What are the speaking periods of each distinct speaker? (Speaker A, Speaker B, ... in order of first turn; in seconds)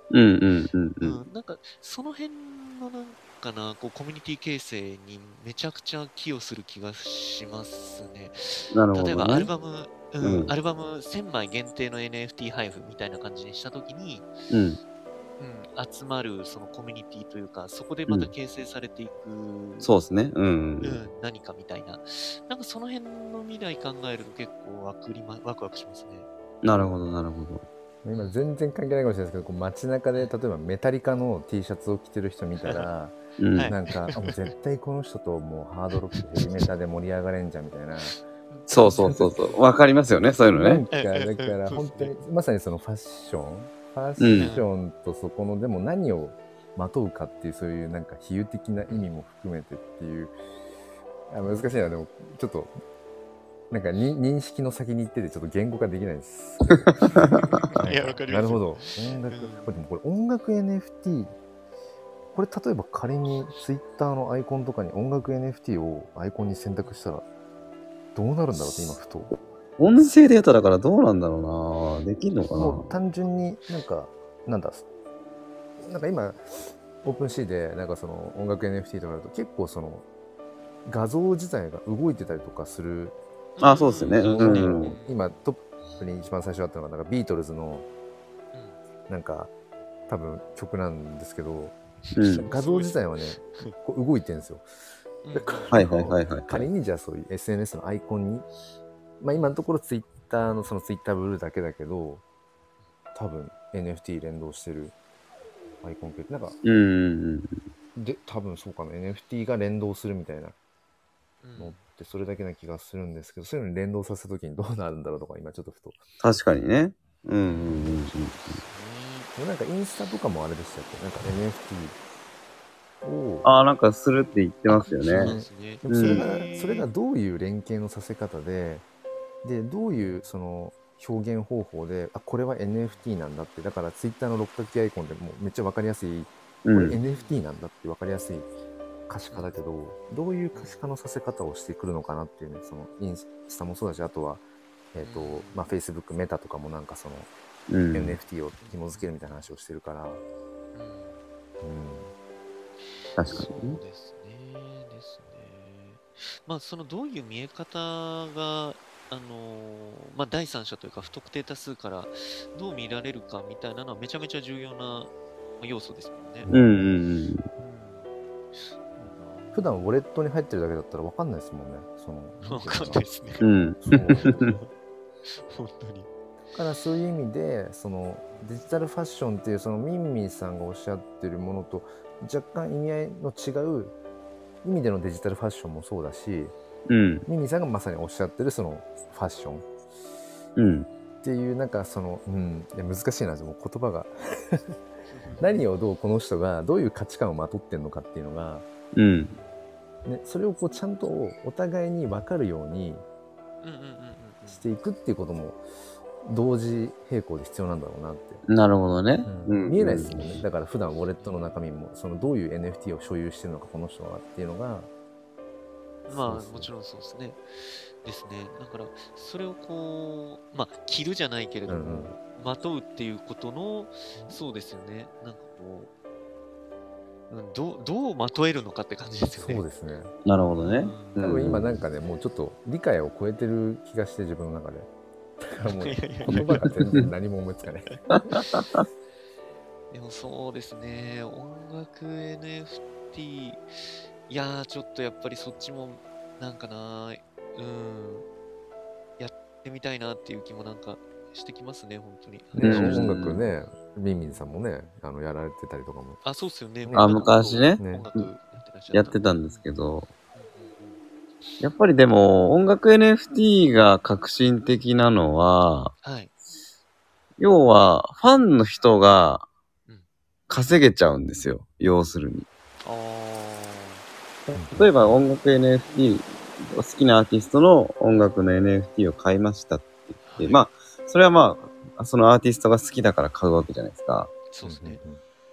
Speaker A: 0.1-1.2, 8.7-9.5, 10.2-10.5, 14.5-14.8, 19.8-21.0, 26.6-27.6, 33.4-33.7, 38.7-40.8, 44.2-44.5, 56.7-57.4, 69.8-72.8, 83.6-85.0, 92.2-92.5, 95.7-96.7, 106.6-107.6, 116.2-118.6, 123.4-125.3, 125.9-126.2, 136.6-137.0, 147.7-148.2, 153.2-153.8, 166.5-167.5, 173.4-174.6, 186.9-187.2, 190.6-190.9, 198.9-199.3, 208.5-210.4, 230.3-231.8, 236.3-237.1, 238.1-238.8, 252.6-253.4, 256.9-258.3, 258.9-260.1, 261.6-265.9, 267.4-269.4, 270.5-272.4, 274.5-284.3
Speaker B: 1.0-14.3, 15.4-19.9, 20.8-26.3, 28.1-28.4, 32.6-32.9, 33.5-34.5, 36.1-36.6, 38.1-39.6, 40.9-42.1, 44.4-44.7, 51.4-51.7, 57.0-59.7, 83.6-85.2, 92.0-93.8, 95.2-95.8, 99.3-99.6, 111.4-111.8, 117.4-119.3, 124.7-126.9, 129.9-130.3, 137.0-137.3, 140.5-140.8, 145.0-145.7, 148.6-149.1, 150.7-151.2, 153.2-166.5, 167.6-169.8, 172.4-174.7, 175.2-176.1, 178.3-178.6, 195.1-195.6, 199.3-199.6, 203.6-204.7, 211.2-211.6, 216.1-225.9, 227.3-229.6, 230.6-231.3, 235.6-236.7, 239.9-243.7, 244.3-248.3, 249.2-253.2, 256.2-259.7, 260.4-261.6, 266.0-266.3, 272.8-274.1, 280.2-280.6, 284.5-285.0
Speaker C: 28.0-38.2, 39.0-39.3, 40.5-50.3, 51.3-52.8, 53.7-61.4, 62.3-67.3, 68.1-69.3, 72.6-74.8, 75.8-80.1, 80.8-83.2, 84.4-87.9, 89.1-89.5, 90.1-91.8, 92.5-94.7, 95.3-98.5, 99.2-102.2, 103.1-104.9, 105.8-106.6, 107.9-110.6, 111.6-116.0, 119.3-122.0, 123.0-123.5, 125.1-128.8, 129.4-138.5, 139.1-147.3, 147.9-150.2, 151.6-152.1, 166.4-166.7, 169.5-173.1, 173.8-174.5, 176.6-183.9, 184.6-186.5, 187.3-189.7, 191.2-194.8, 195.4-198.7, 200.1-203.1, 204.5-205.6, 206.2-208.4, 209.3-214.9, 216.1-216.7, 221.7-222.2, 229.4-230.1, 231.2-234.9, 235.4-238.1, 252.5-256.2, 256.9-257.2, 257.8-258.1, 274.5-274.9, 284.6-285.2